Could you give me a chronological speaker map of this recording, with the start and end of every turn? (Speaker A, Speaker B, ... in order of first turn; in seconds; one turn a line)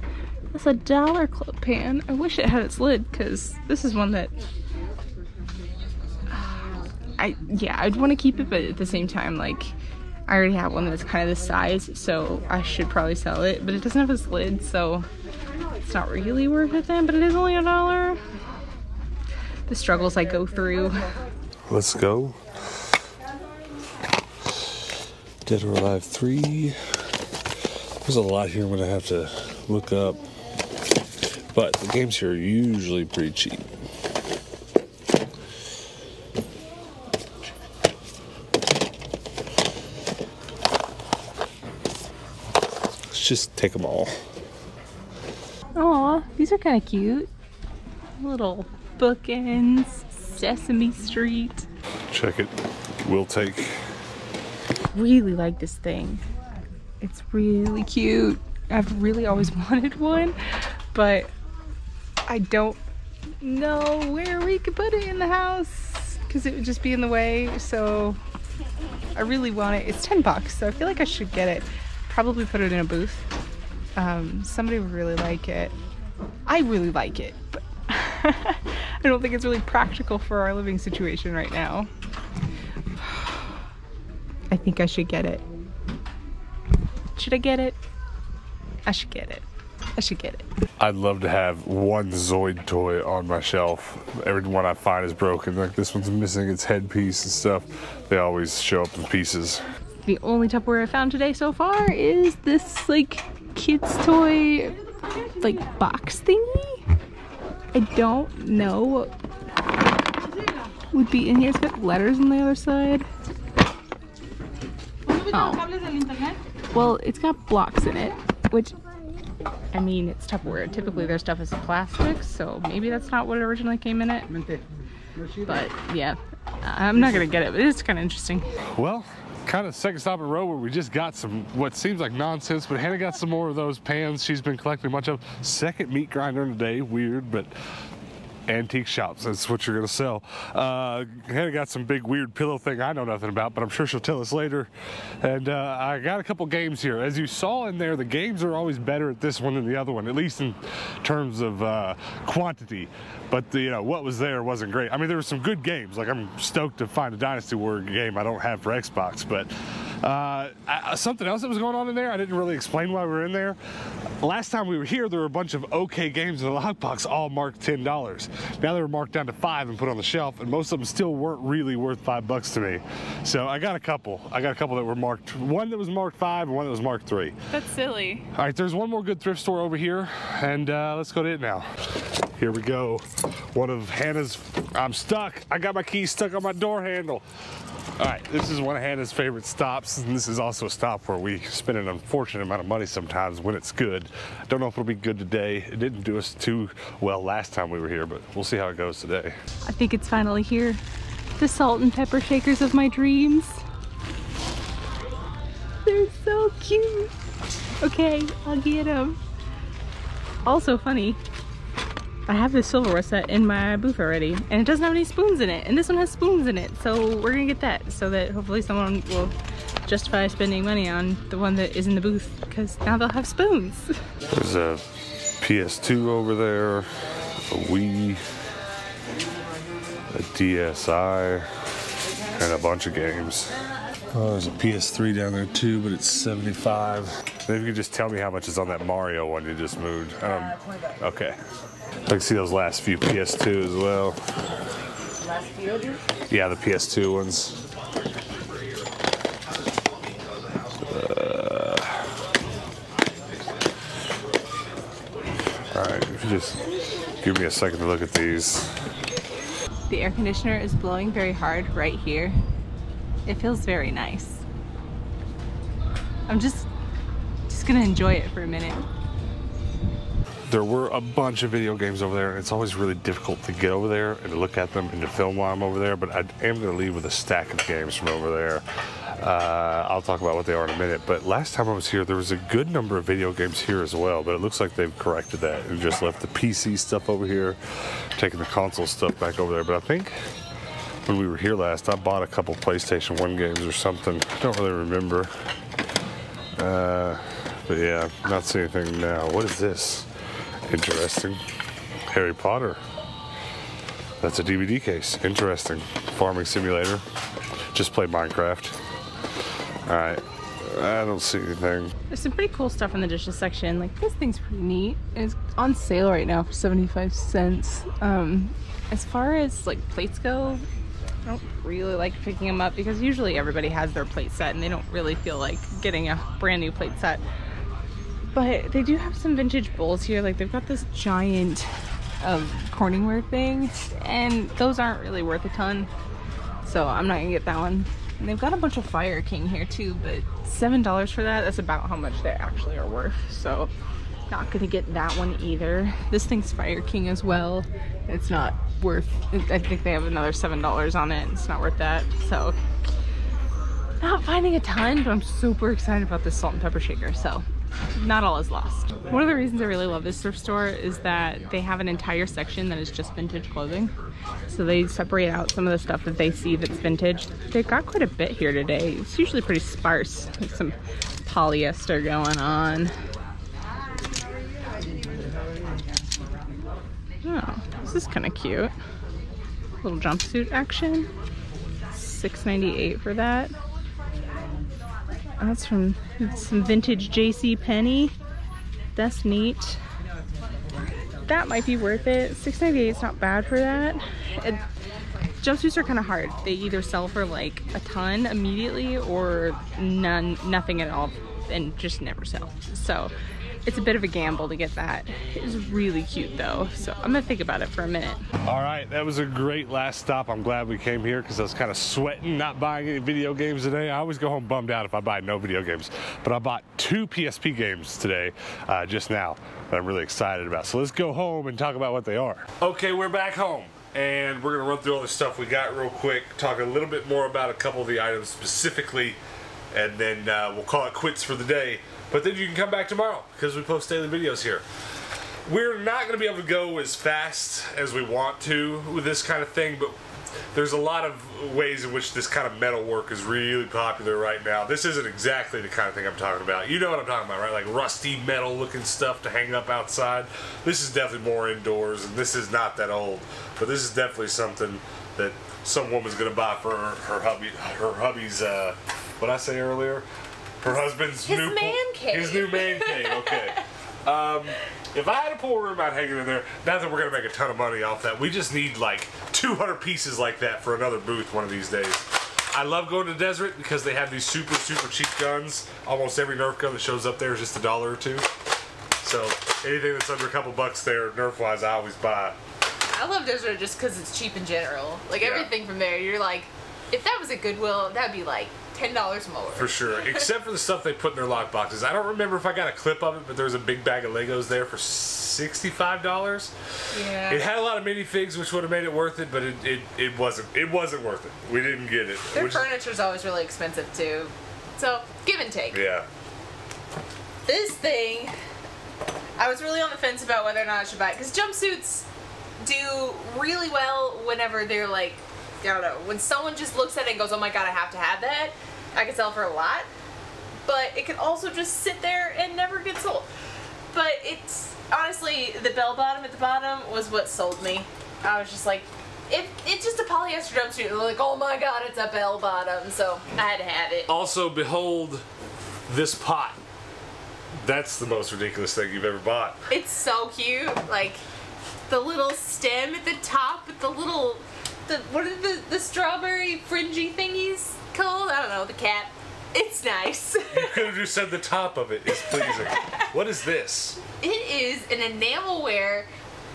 Speaker A: 0.5-4.3
Speaker A: 7.2-9.7
Speaker A: 10.3-15.1
Speaker A: 15.8-18.2
Speaker A: 19.7-21.1
Speaker B: 21.7-22.4
Speaker B: 25.4-26.8
Speaker B: 28.0-30.2
Speaker B: 31.5-33.7
Speaker B: 43.1-44.2
Speaker A: 45.8-47.3
Speaker A: 48.2-51.7
Speaker B: 52.1-52.5
Speaker B: 53.0-53.8
Speaker A: 54.9-56.2
Speaker A: 57.0-60.4
Speaker A: 60.9-61.3
Speaker A: 62.3-62.8
Speaker A: 63.4-68.2
Speaker A: 69.2-73.2
Speaker A: 74.0-75.7
Speaker A: 76.5-81.9
Speaker A: 83.0-83.3
Speaker A: 84.5-85.4
Speaker A: 87.2-87.8
Speaker A: 88.8-89.5
Speaker A: 90.0-90.5
Speaker B: 90.8-99.6
Speaker A: 100.0-104.8
Speaker A: 105.4-106.9
Speaker A: 107.7-109.1
Speaker A: 110.9-113.1
Speaker A: 115.1-118.8
Speaker A: 119.7-124.3
Speaker A: 125.4-128.5
Speaker B: 128.8-137.5
Speaker B: 138.5-144.7
Speaker B: 145.2-163.6
Speaker B: 164.2-177.4
Speaker C: 177.5-178.3
Speaker B: 178.3-181.7
Speaker B: 182.4-187.2
Speaker B: 188.0-199.4
Speaker A: 199.7-200.8
Speaker A: 201.4-203.6
Speaker A: 205.8-207.1
Speaker A: 207.8-209.2
Speaker A: 210.4-211.2
Speaker A: 212.3-219.3
Speaker A: 219.9-224.0
Speaker B: 224.3-224.8
Speaker B: 225.4-226.9
Speaker B: 227.5-228.2
Speaker B: 230.1-231.5
Speaker B: 232.4-233.6
Speaker B: 234.1-241.4
Speaker B: 242.1-244.2
Speaker B: 246.3-247.6
Speaker B: 250.9-252.0
Speaker B: 255.7-256.6
Speaker B: 257.2-258.7
Speaker A: 259.9-262.4
Speaker A: 263.3-264.4
Speaker A: 266.3-266.7
Speaker A: 267.5-268.9
Speaker B: 270.5-278.6
Speaker B: 279.2-287.6
Speaker B: 288.1-290.2
Speaker B: 291.1-295.3
Speaker B: 296.6-300.1
Speaker B: 300.7-301.4
Speaker B: 302.1-302.8
Speaker B: 304.2-307.0
Speaker B: 307.7-308.8
Speaker B: 309.9-311.9
Speaker A: 312.1-320.6
Speaker A: 321.3-327.2
Speaker A: 328.3-331.7
Speaker A: 332.2-335.9
Speaker A: 336.6-343.7
Speaker A: 344.3-352.6
Speaker A: 354.0-363.9
Speaker A: 364.5-372.9
Speaker A: 377.2-378.7
Speaker A: 379.8-381.1
Speaker A: 381.9-383.5
Speaker A: 385.4-388.1
Speaker A: 389.0-389.8
Speaker A: 391.3-394.6
Speaker A: 395.4-403.1
Speaker A: 403.6-408.2
Speaker B: 408.5-429.2
Speaker B: 429.7-434.6
Speaker B: 435.5-440.0
Speaker B: 440.5-460.1
Speaker B: 460.6-478.3
Speaker C: 461.1-463.6
Speaker B: 479.0-482.4
Speaker C: 482.9-490.3
Speaker B: 485.2-485.5
Speaker B: 489.6-496.5
Speaker C: 496.9-497.4
Speaker B: 497.3-502.7
Speaker C: 502.3-505.8
Speaker B: 505.7-506.1
Speaker C: 507.4-508.4
Speaker C: 509.4-512.1
Speaker C: 512.6-519.9
Speaker C: 520.7-523.3
Speaker C: 523.9-534.1
Speaker B: 534.1-535.2
Speaker B: 535.9-536.6
Speaker B: 537.6-539.6
Speaker C: 539.7-541.2
Speaker C: 541.9-550.9
Speaker B: 550.5-554.0
Speaker C: 552.1-553.0
Speaker C: 554.2-556.1